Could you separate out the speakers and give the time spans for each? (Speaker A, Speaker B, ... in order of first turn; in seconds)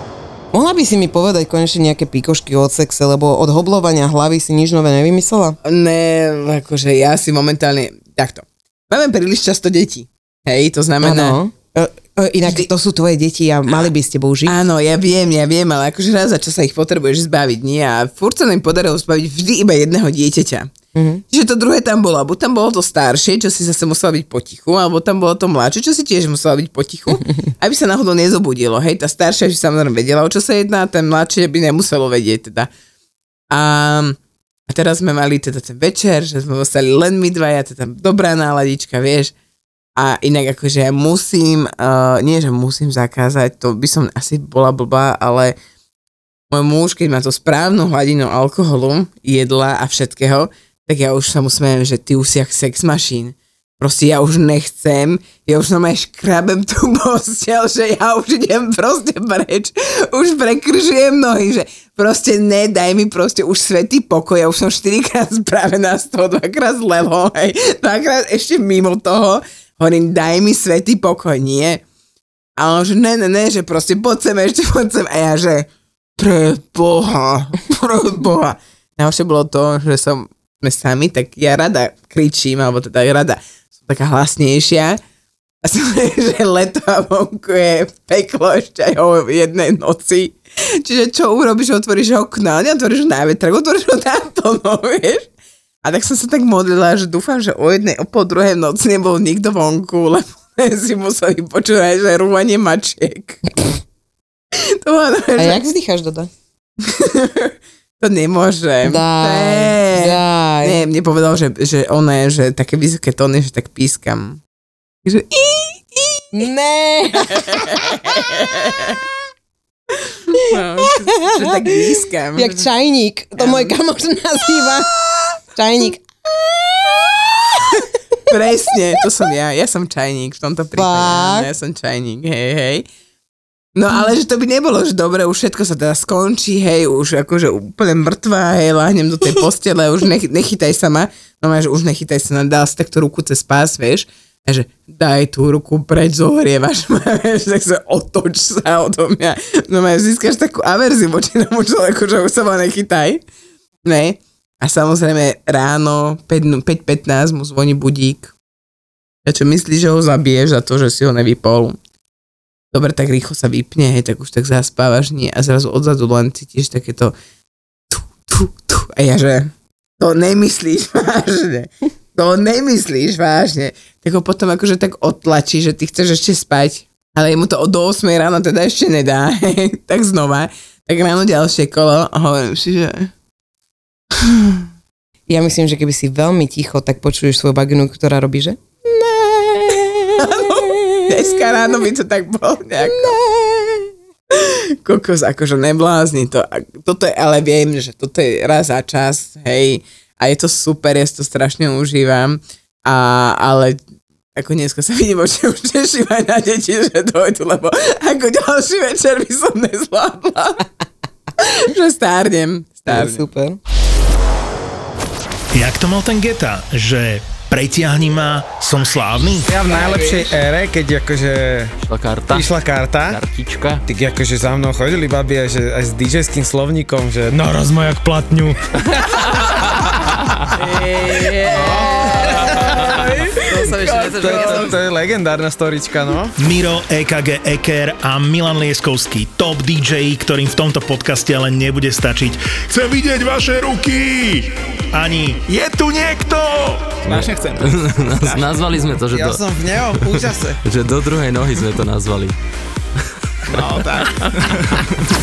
Speaker A: 0.5-5.5, 11.0-14.6, 20.9-21.2, 105.4-106.3, 108.8-110.8, 116.3-118.9, 121.3-121.8, 122.3-127.8, 130.7-131.5, 185.3-191.2, 192.8-193.8, 212.9-213.6
Speaker B: 5.6-11.4, 14.4-20.7, 21.3-32.7, 33.5-34.2, 34.7-39.3, 40.0-45.5, 46.5-71.8, 72.6-85.0, 85.6-95.3, 95.8-103.4, 104.8-105.6, 106.8-114.4, 115.0-116.2, 117.2-118.9, 120.3-122.7, 123.4-123.7, 128.3-132.8, 133.7-153.2, 153.8-158.3, 159.2-161.8, 162.7-167.1, 167.9-183.1, 184.2-184.6, 190.2-193.2, 194.3-203.8, 204.3-210.7, 211.4-213.2, 230.6-234.8
Speaker C: 215.5-219.5, 236.4-247.6
Speaker D: 219.5-221.7, 222.3-223.2, 223.8-229.2, 230.8-236.3, 249.0-250.6, 253.5-254.5
Speaker E: 221.8-223.8, 234.4-234.6, 247.1-252.3, 253.5-253.9